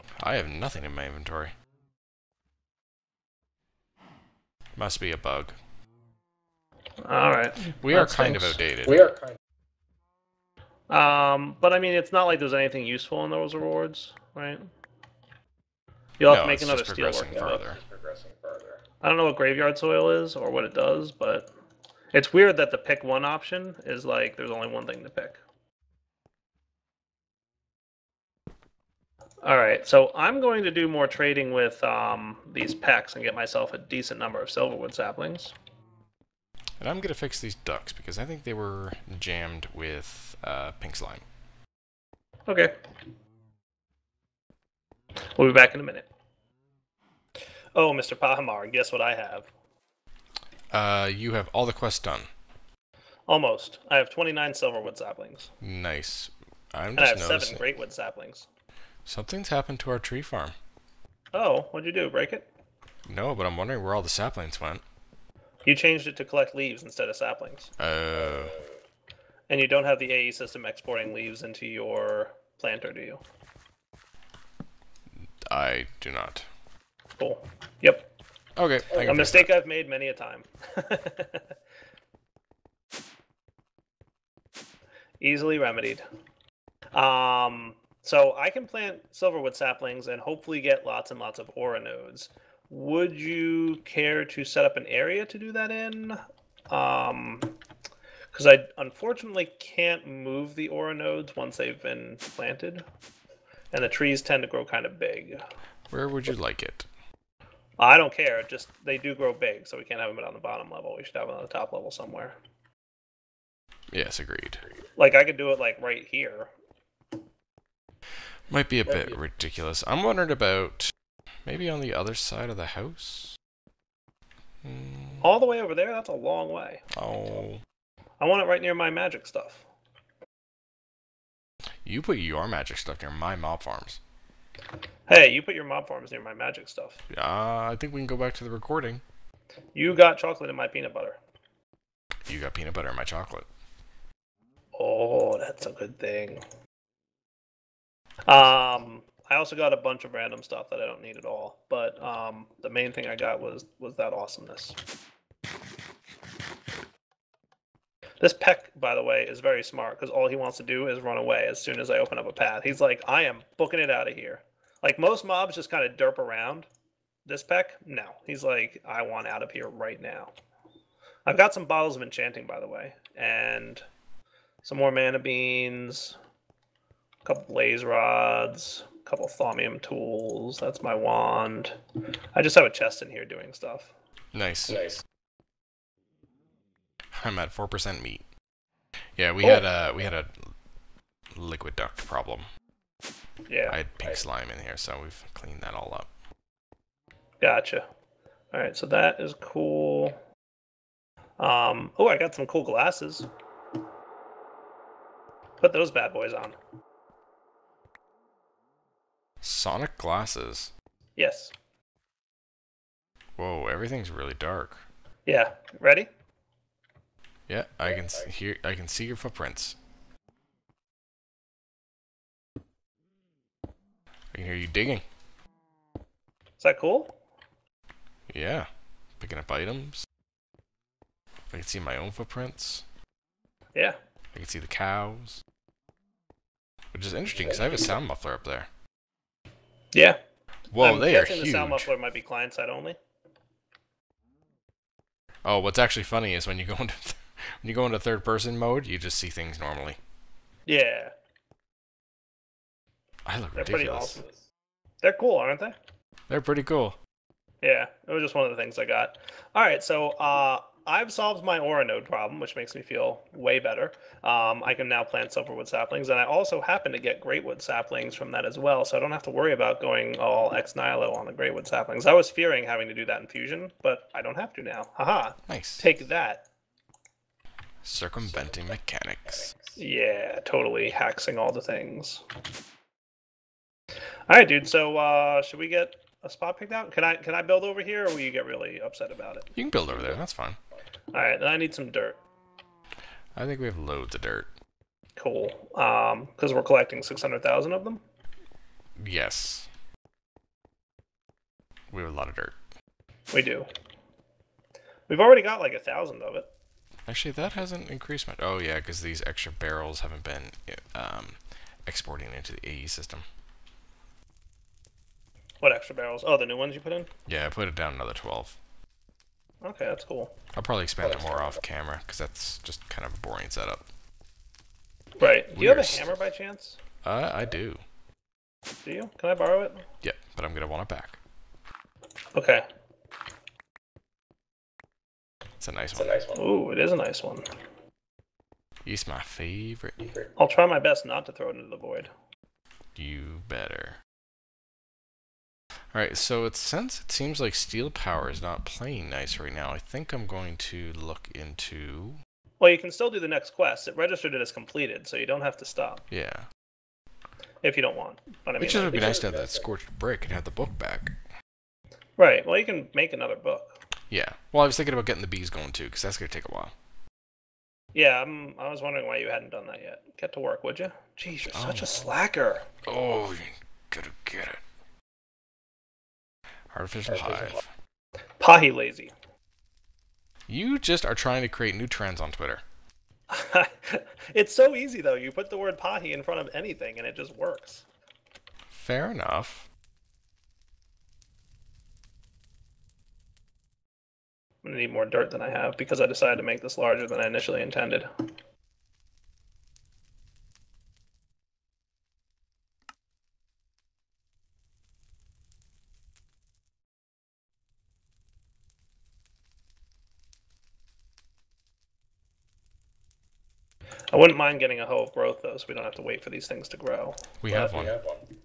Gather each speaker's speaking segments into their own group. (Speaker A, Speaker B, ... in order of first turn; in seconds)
Speaker A: 0.2-1.5, 4.8-5.5, 7.7-9.1, 16.3-17.8, 36.8-41.2, 50.7-52.3, 55.6-57.6, 59.0-60.5, 63.0-64.8, 67.8-68.6, 75.5-76.5, 78.5-79.5, 105.9-106.9, 113.9-114.6, 118.5-120.9, 121.4-123.4, 124.6-125.2, 126.9-127.6, 131.8-134.0, 137.1-139.0, 142.2-143.5, 184.3-185.0, 187.1-188.2, 189.2-190.5, 191.3-192.5, 193.7-196.1, 209.4-210.7, 213.4-214.8, 217.5-219.8, 224.3-225.0, 228.3-228.7, 229.2-230.1, 231.5-232.8, 234.3-235.4, 236.9-238.7, 240.7-241.9, 245.4-250.0, 253.2-254.2, 256.3-257.0, 275.5-275.9, 277.8-279.5, 289.5-290.6, 293.4-294.5, 299.0-299.7, 301.9-302.6, 307.1-313.2, 317.2-318.6, 320.5-323.9, 325.5-326.1, 327.0-327.8, 330.0-331.2, 335.6-336.1, 338.8-340.1, 342.9-344.0, 345.9-352.2, 356.1-356.4, 358.6-361.1, 364.1-366.7, 371.5-372.0, 372.8-374.6, 376.7-377.6, 380.5-382.6, 388.7-389.7, 417.4-417.9
Speaker B: 7.0-8.6, 10.9-14.7, 16.2-17.6, 19.0-21.5, 22.1-25.4, 29.4-35.5, 42.5-42.7, 45.4-46.1, 47.7-49.5, 53.3-55.5, 57.0-58.5, 61.3-62.5, 65.6-67.7, 69.5-73.2, 77.2-78.1, 79.0-81.5, 85.2-86.0, 86.9-96.2, 96.7-97.5, 98.3-102.8, 103.7-105.4, 107.8-112.4, 115.0-116.5, 125.2-126.8, 128.2-129.6, 135.1-137.0, 139.7-141.2, 144.8-146.4, 148.3-154.8, 158.2-166.7, 167.2-170.3, 171.2-173.8, 174.6-176.2, 177.2-181.8, 182.3-183.9, 193.5-193.8, 197.4-197.9, 198.5-200.2, 201.4-203.3, 205.6-206.6, 211.2-211.5, 215.2-216.1, 226.6-227.1, 239.9-240.2, 240.8-243.0, 250.7-251.1, 253.6-254.2, 255.0-255.8, 257.6-276.4, 279.8-282.2, 284.3-289.5, 291.1-292.2, 295.2-298.0, 303.3-303.7, 305.1-306.5, 315.6-317.1, 319.6-320.3, 325.2-326.8, 328.8-329.9, 332.3-332.6, 336.3-337.4, 340.4-342.1, 352.6-356.0, 357.6-359.2, 362.2-363.8, 367.9-372.7, 378.4-379.1, 383.3-387.8, 394.6-398.1, 414.1-417.2
Speaker C: 17.5-18.8, 237.4-238.0, 278.4-278.6, 279.4-279.8, 321.1-321.5, 336.0-336.4, 358.8-359.6, 377.1-377.5, 417.5-418.3